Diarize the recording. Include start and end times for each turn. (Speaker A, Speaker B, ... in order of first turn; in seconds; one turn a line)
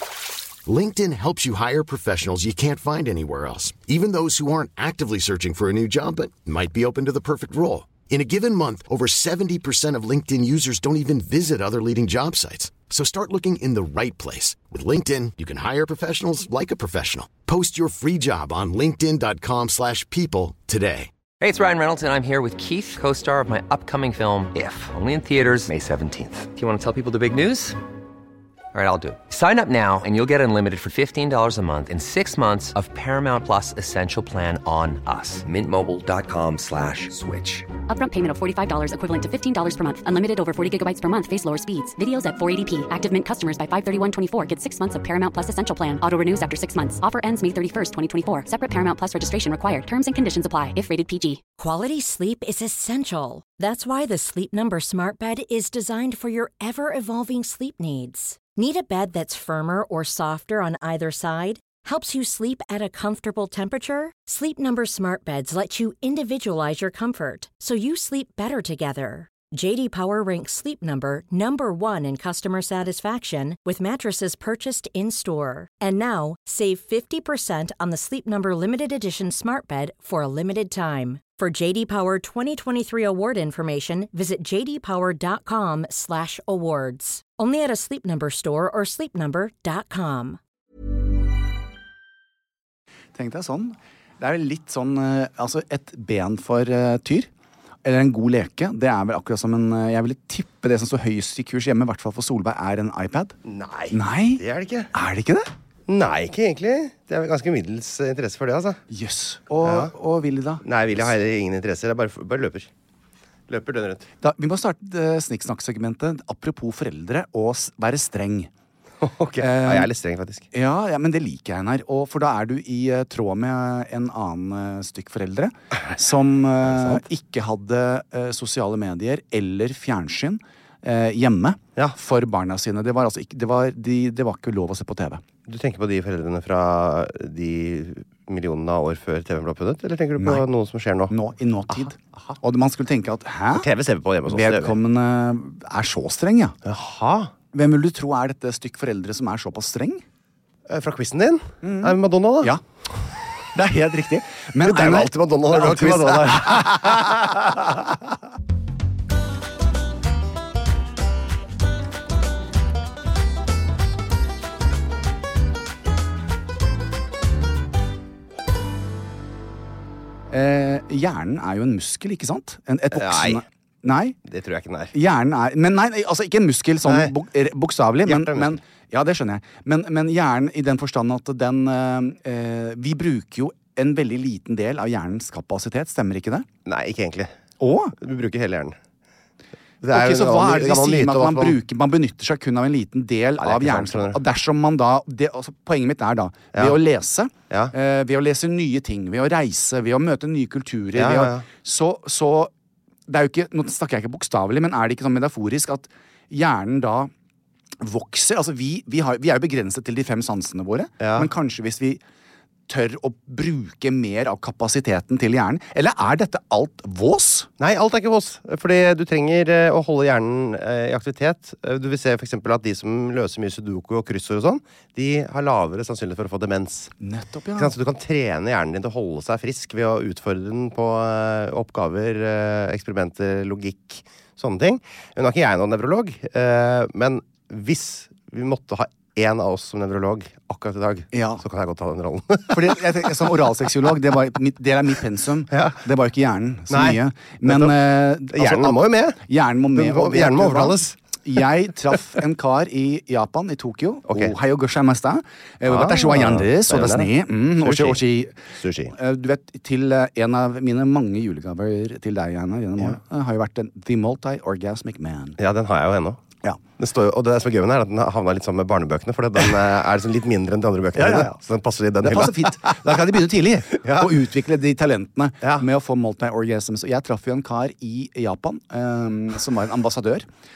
Speaker A: 0.7-21.1
Speaker B: 21.4-27.8
Speaker B: 28.7-37.7
Speaker C: 37.9-51.4
Speaker D: 51.6-90.4
Speaker E: 93.1-97.3
Speaker E: 97.8-103.3
Speaker F: 103.4-104.9
Speaker E: 103.9-104.4
Speaker E: 104.9-105.5
Speaker F: 105.9-108.8
Speaker E: 108.9-110.6
Speaker F: 109.6-109.9
Speaker F: 110.6-112.7
Speaker F: 113.5-114.1
Speaker E: 114.2-118.5
Speaker F: 119.0-120.5
Speaker E: 119.4-119.9
Speaker E: 120.5-135.2
Speaker F: 126.6-127.0
Speaker F: 135.5-141.1
Speaker E: 140.2-140.4
Speaker E: 141.1-143.7
Speaker F: 141.7-142.4
Speaker F: 143.5-144.8
Speaker E: 144.3-146.6
Speaker F: 146.6-147.3
Speaker E: 147.5-150.0
Speaker F: 150.7-152.6
Speaker E: 151.6-152.6
Speaker E: 153.5-157.5
Speaker F: 154.6-157.8
Speaker E: 170.3-174.2
Speaker F: 172.9-173.4
Speaker F: 174.2-174.9
Speaker E: 174.9-186.5
Speaker F: 176.8-177.2
Speaker F: 178.1-178.6
Speaker F: 186.7-187.4
Speaker E: 187.6-187.9
Speaker F: 188.0-188.8
Speaker F: 189.8-191.6
Speaker E: 189.9-202.5
Speaker F: 193.4-194.2
Speaker F: 196.5-196.8
Speaker F: 200.9-201.5
Speaker E: 203.1-207.1
Speaker E: 207.8-212.0
Speaker F: 211.0-211.3
Speaker E: 212.7-217.5
Speaker F: 217.6-226.9
Speaker E: 227.0-227.7
Speaker F: 227.6-243.4
Speaker E: 241.1-241.4
Speaker E: 242.5-258.4
Speaker F: 245.5-245.8
Speaker F: 246.7-250.9
Speaker F: 254.1-254.3
Speaker F: 255.7-258.9
Speaker E: 258.9-265.4
Speaker F: 265.4-266.2
Speaker F: 266.8-273.2
Speaker E: 270.9-271.3
Speaker E: 272.0-280.3
Speaker F: 273.7-274.1
Speaker F: 275.4-275.7